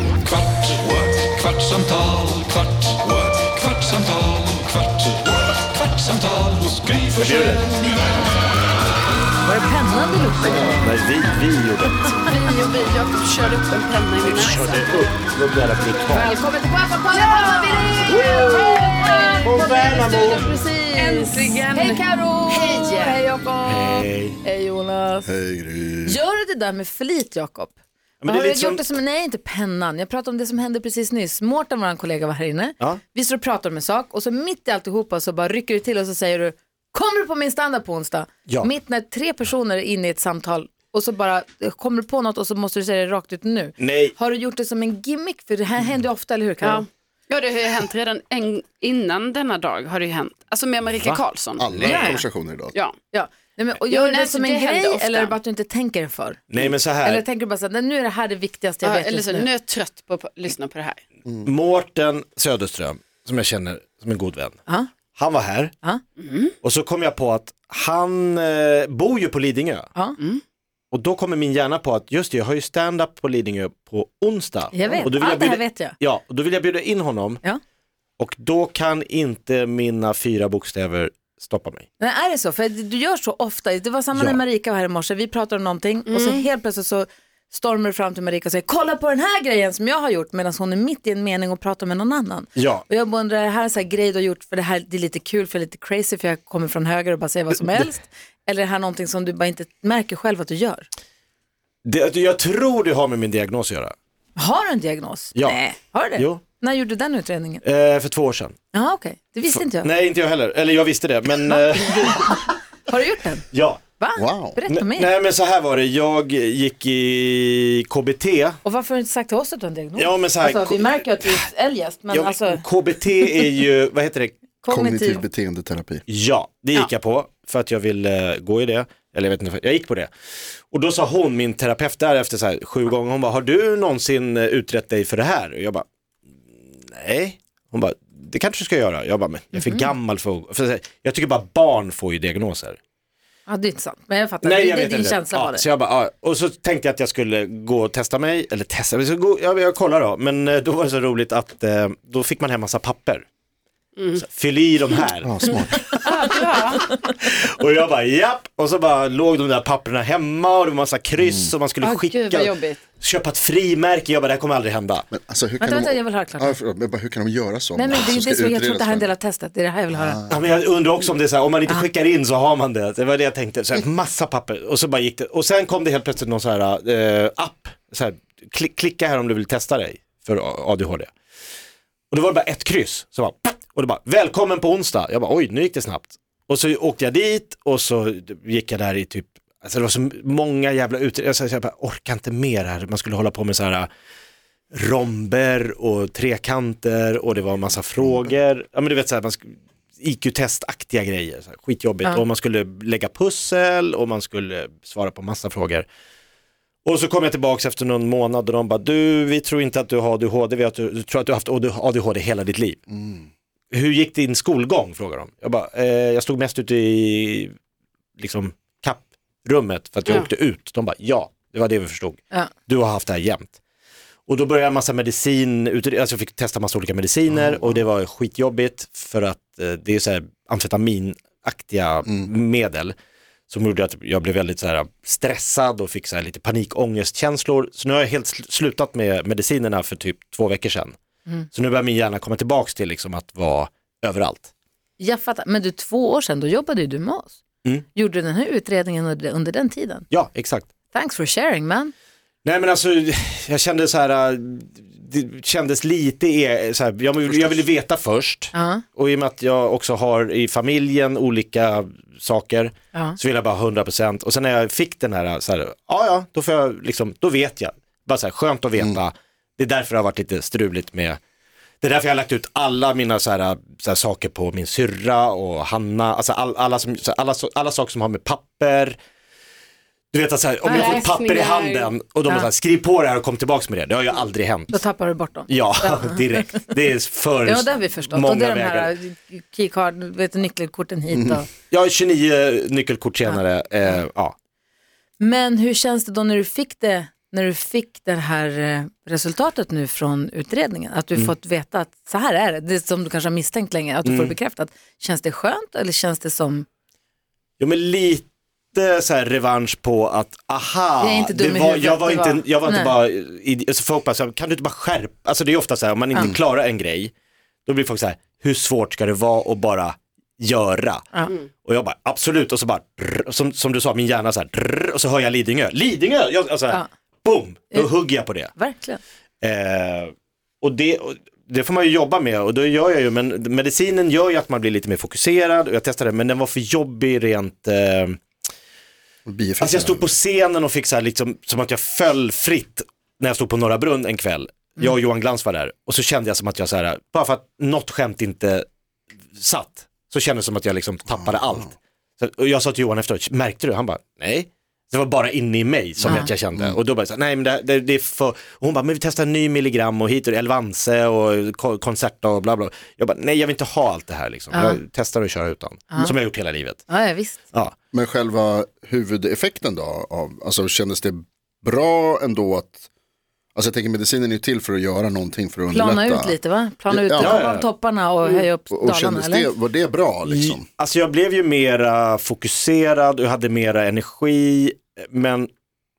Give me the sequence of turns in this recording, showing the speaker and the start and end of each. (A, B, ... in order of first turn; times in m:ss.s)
0:00.8-0:07.5 A
0:07.2-0:07.8 B
0:09.4-0:10.9 C
0:10.5-0:12.3 B
0:12.3-0:14.9 D
0:14.2-0:16.4 B
0:16.1-0:25.3 C
0:17.2-0:17.7 D
0:18.1-0:20.5 B
0:21.0-0:22.0 D
0:22.7-0:23.2 D
0:23.6-0:24.4 B
0:25.3-0:26.2 E
0:26.0-0:46.8 C
0:28.2-0:28.9 B
0:43.8-0:44.1 B
0:46.6-0:52.2 D
0:51.6-0:52.8 E
0:51.8-0:52.2 C
0:53.1-0:56.4 C
0:53.9-0:55.4 D
0:56.5-0:57.2 B
0:57.0-0:59.5 C
0:58.8-1:01.0 D
1:01.4-1:04.6 B
1:05.2-1:05.7 B
1:06.2-1:06.5 D
1:06.6-1:09.9 B
1:10.9-1:17.4 B
1:14.7-1:16.0 C
1:18.2-1:21.9 B
1:22.0-1:40.9 C
1:24.1-1:24.4 B
1:26.1-1:26.4 D
1:32.6-1:32.8 B
1:41.8-1:43.9 B
1:44.4-1:47.6 C
1:47.6-1:48.6 B
1:48.7-1:49.9 C
1:49.6-1:52.5 B
1:51.5-1:53.5 C
1:53.5-1:53.8 B
1:54.0-1:55.1 C
1:54.2-1:54.6 E
1:54.7-1:58.6 B
1:58.6-2:02.6 C
2:00.0-2:01.4 B
2:02.1-2:04.4 B
2:04.6-2:05.2 C
2:04.7-2:06.0 E
2:06.1-2:10.1 B
2:10.7-2:15.8 B
2:16.8-2:22.8 B
2:19.6-2:19.9 C
2:23.5-2:25.6 C
2:24.4-2:33.2 B
2:34.2-2:35.6 B
2:35.2-2:35.8 E
2:36.0-2:36.9 D
2:36.8-2:45.1 B
2:41.2-2:41.5 E
2:41.8-2:42.8 D
2:45.1-2:49.1 E
2:45.6-2:46.6 C
2:47.8-2:50.2 C
2:49.9-2:50.5 E
2:50.3-3:01.1 B
3:02.1-3:13.9 B
3:14.7-3:25.9 B
3:26.8-3:32.8 B
3:32.9-3:33.3 E
3:33.7-3:37.5 B
3:38.2-3:43.6 B
3:44.3-3:53.0 B
3:53.5-4:01.0 B
4:01.5-4:04.5 B
4:05.0-4:07.4 C
4:07.9-4:10.1 C
4:10.1-4:10.7 B
4:10.9-4:11.9 C
4:12.4-4:31.2 B
4:18.5-4:18.8 C
4:31.8-4:39.0 B
4:40.1-4:44.8 B
4:40.7-4:41.0 C
4:40.7-4:41.9 D
4:44.7-4:46.4 C
4:45.5-4:48.9 B
4:47.4-4:51.5 C
4:51.7-4:54.4 B
4:55.2-5:06.7 C
5:04.0-5:04.4 B
5:07.6-5:17.1 B
5:11.0-5:13.0 C
5:17.7-5:21.0 B
5:21.6-5:28.5 B
5:28.5-5:29.0 C
5:29.4-5:38.2 B
5:39.3-5:40.1 E
5:39.6-5:48.7 B
5:49.4-6:06.8 B
5:56.0-5:56.3 C
5:56.2-5:56.8 E
6:04.5-6:04.8 C
6:06.9-6:07.4 C
6:07.9-6:12.9 E
6:13.6-6:16.4 E
6:15.7-6:19.5 C
6:16.9-6:17.4 E
6:17.2-6:17.7 B
6:18.7-6:20.6 E
6:20.3-6:25.5 B